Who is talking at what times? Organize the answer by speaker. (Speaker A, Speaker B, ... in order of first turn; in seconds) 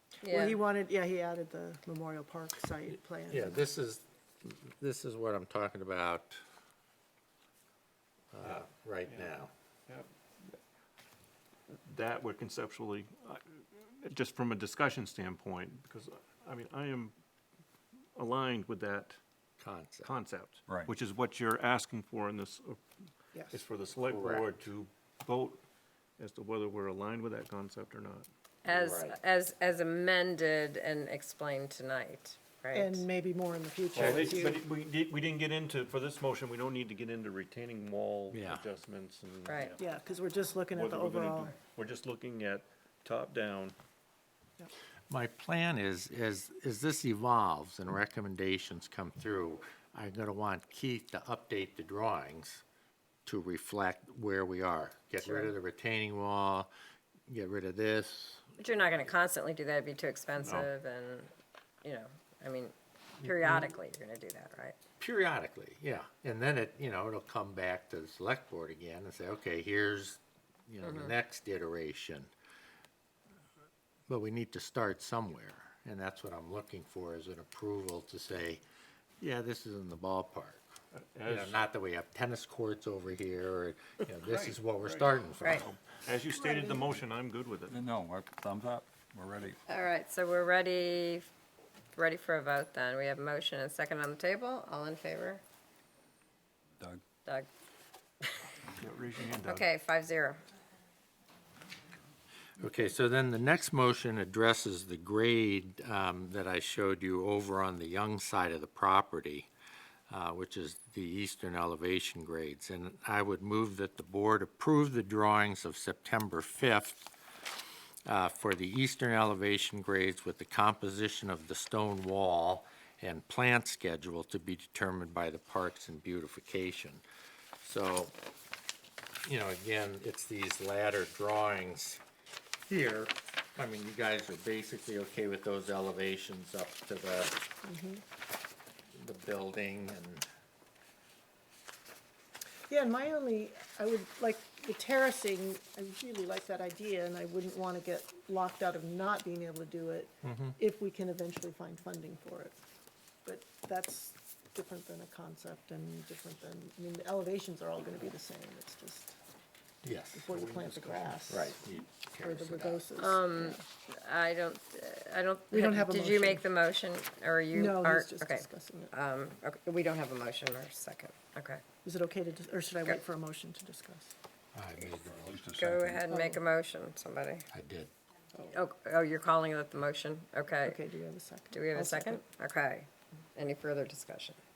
Speaker A: 0.2-0.6, 28.6-33.0, 39.5-39.8, 55.3-55.5, 58.6-61.3, 61.8-64.8, 70.8-71.1, 89.7-91.3, 92.0-95.4, 99.4-100.4, 163.0-171.6, 175.6-177.5, 178.5-180.8, 181.5-184.4
Speaker B: 0.3-3.6, 23.3-23.6, 32.7-34.6, 39.8-41.5, 86.3-86.9, 137.6-138.0, 142.7-152.6, 153.2-159.2, 160.1-161.6, 162.2-163.6, 165.5-166.5, 167.5-168.9, 171.8-174.1, 176.1-176.4, 180.7-182.2
Speaker C: 3.3-6.4, 8.3-9.5, 19.6-20.1, 24.1-24.5, 34.0-34.3, 38.3-38.6, 45.1-52.6, 53.3-56.7, 57.3-58.4, 63.2-63.7, 65.0-72.3, 74.1-78.6, 79.2-80.7, 81.3-85.7, 102.6-109.5, 110.1-117.1, 118.1-127.0, 127.6-128.1, 129.2-132.0, 132.7-137.4, 138.9-140.3, 150.2-150.6, 159.8-162.8, 174.5-175.2, 177.5-177.9
Speaker D: 8.4-9.3, 9.9-10.6, 11.9-17.1, 18.1-19.2, 20.0-22.8, 23.5-25.6, 26.2-29.1, 33.9-39.8, 40.7-43.8, 81.0-81.6, 84.2-85.1, 85.6-87.8, 98.8-99.7
Speaker E: 87.7-89.6, 174.9-176.0